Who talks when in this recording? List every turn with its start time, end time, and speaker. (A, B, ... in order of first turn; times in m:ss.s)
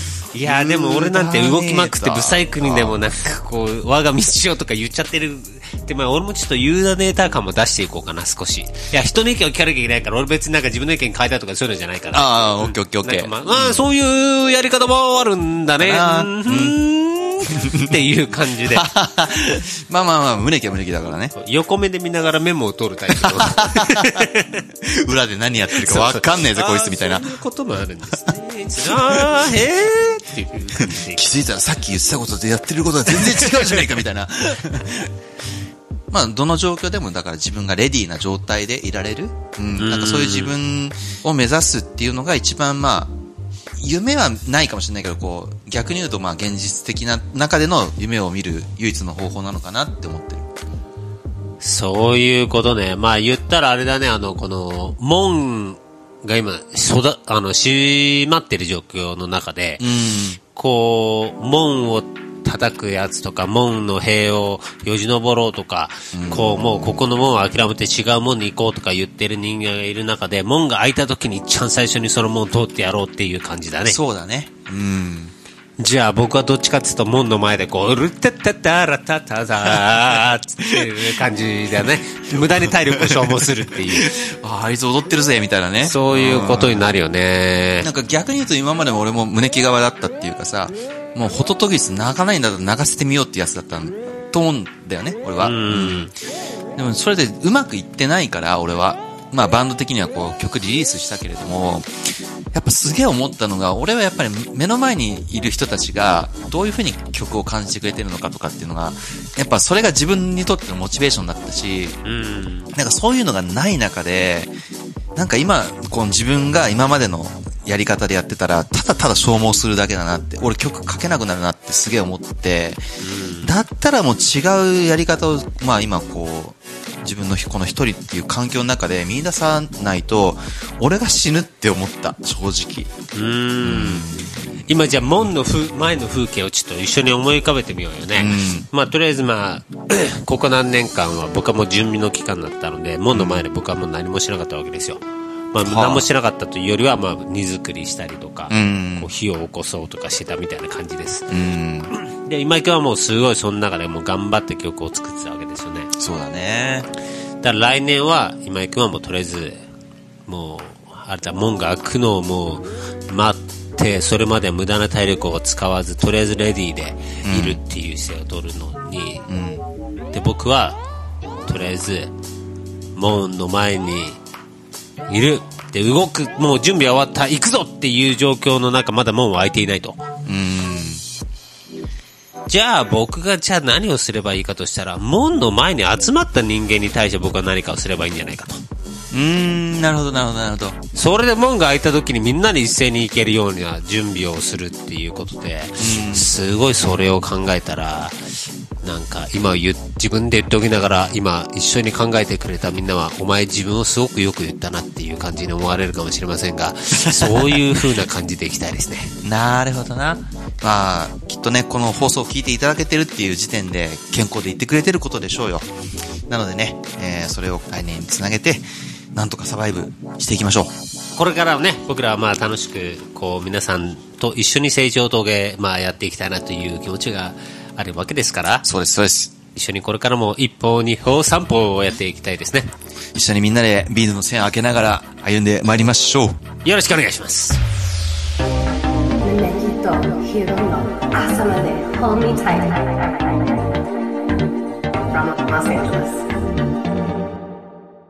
0:00.3-0:18.9 A
0:00.4-0:03.0 B
0:12.1-0:13.8 B
0:15.8-0:16.8 B
0:17.5-0:18.0 B
0:18.7-0:21.3 B
0:21.3-0:24.6 A
0:23.1-0:24.3 B
0:24.8-0:27.3 B
0:25.7-0:31.2 A
0:28.7-0:29.7 B
0:30.8-0:35.1 B
0:33.1-0:33.8 A
0:36.1-0:43.1 B
0:39.8-0:40.5 A
0:43.8-0:50.5 B
0:51.6-0:59.9 A
0:59.8-1:00.4 B
1:00.5-1:14.0 A
1:06.1-1:07.0 B
1:13.8-1:15.3 B
1:15.8-1:24.2 A
1:20.6-1:20.9 B
1:21.8-1:26.9 B
1:25.8-1:27.9 A
1:27.8-1:36.1 B
1:35.4-1:36.1 A
1:36.8-1:41.9 B
1:42.5-1:52.0 B
1:52.0-1:52.7 A
1:52.7-1:54.5 B
1:55.2-2:02.8 B
2:03.0-2:03.6 A
2:03.4-2:12.9 B
2:13.1-2:14.0 A
2:13.6-2:14.4 B
2:14.7-2:25.0 A
2:18.2-2:18.7 B
2:23.1-2:23.4 B
2:25.5-2:31.3 A
2:25.6-2:26.1 B
2:28.5-2:29.1 B
2:31.3-2:31.9 B
2:31.9-2:35.9 A
2:36.0-2:36.9 B
2:37.4-2:39.6 A
2:40.3-2:49.2 A
2:47.2-2:47.6 B
2:49.3-2:49.6 B
2:50.1-2:50.8 A
2:51.4-2:52.1 A
2:52.9-2:54.2 A
2:55.1-3:00.0 A
3:00.2-3:01.0 B
3:02.5-3:08.6 A
3:09.1-3:10.8 B
3:10.9-3:18.2 A
3:15.8-3:16.3 B
3:18.8-3:29.2 A
3:27.0-3:27.6 B
3:29.2-3:35.7 B
3:36.3-3:40.7 B
3:41.2-3:48.6 A
3:48.6-3:49.3 B
3:49.5-3:52.7 A
3:53.1-3:56.4 B
3:56.6-3:57.6 A
3:59.2-4:03.7 C
4:05.1-4:06.2 C